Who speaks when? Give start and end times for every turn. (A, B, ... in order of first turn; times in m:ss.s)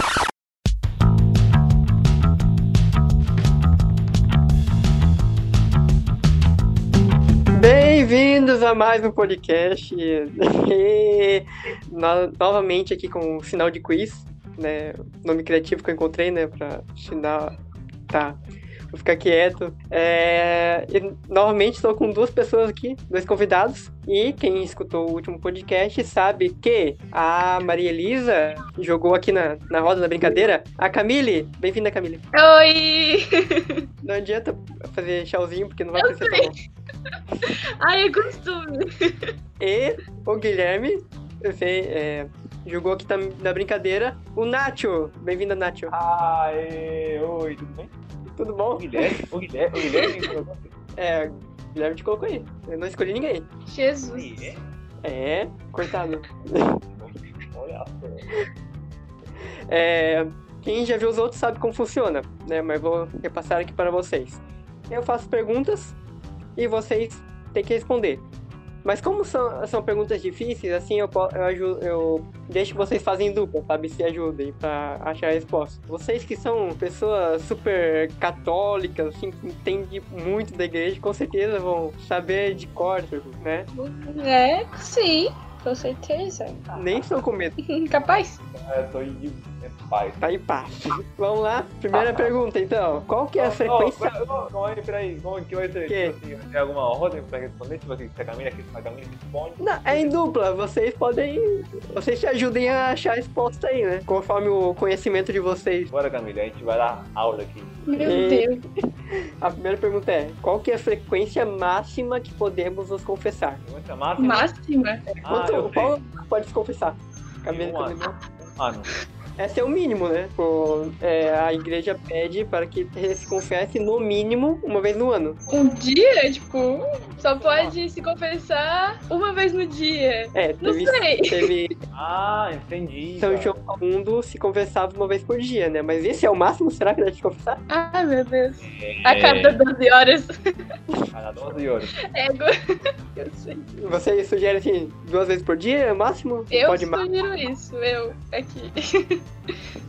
0:07.5-0:17.6 A
0:18.1-0:18.4 A
0:18.9-0:32.2 A
0:32.3-0:33.8 B
0:34.0-0:36.5 A
0:36.0-0:36.5 B
0:37.1-0:39.3 B
0:39.6-0:45.9 A
0:45.9-0:47.9 C
0:48.3-0:49.2 A
0:48.7-0:50.7 C
0:51.0-0:53.4 A
0:53.7-0:54.5 B
0:54.0-0:54.6 C
0:55.0-0:56.7 A
0:56.9-0:58.3 C
0:59.7-1:06.0 A
1:06.6-1:08.2 A
1:08.8-1:23.7 A
1:23.7-1:26.6 B
1:26.7-1:27.2 C
1:26.8-1:27.6 A
1:27.6-1:28.4 B
1:28.5-1:30.3 C
1:30.2-1:34.1 A
1:31.9-1:32.3 C
1:33.4-1:40.1 C
1:35.9-1:36.2 A
1:39.6-1:45.9 A
1:45.9-1:48.0 C
1:47.9-1:48.6 B
1:48.0-1:48.6 A
1:49.4-1:53.6 A
1:53.6-1:54.5 C
1:54.2-1:55.0 B
1:55.1-1:58.1 A
1:55.2-1:56.0 C
1:57.5-1:58.0 C
1:58.6-1:58.9 C
1:59.4-2:05.4 A
2:05.5-2:11.4 B
2:07.2-2:07.7 C
2:10.3-2:11.7 A
2:11.9-2:13.6 C
2:13.2-2:17.6 A
2:17.7-2:20.3 B
2:18.6-2:19.6 C
2:21.1-2:22.0 C
2:22.1-2:22.5 B
2:23.1-2:23.7 B
2:23.8-2:27.1 A
2:26.5-2:29.2 B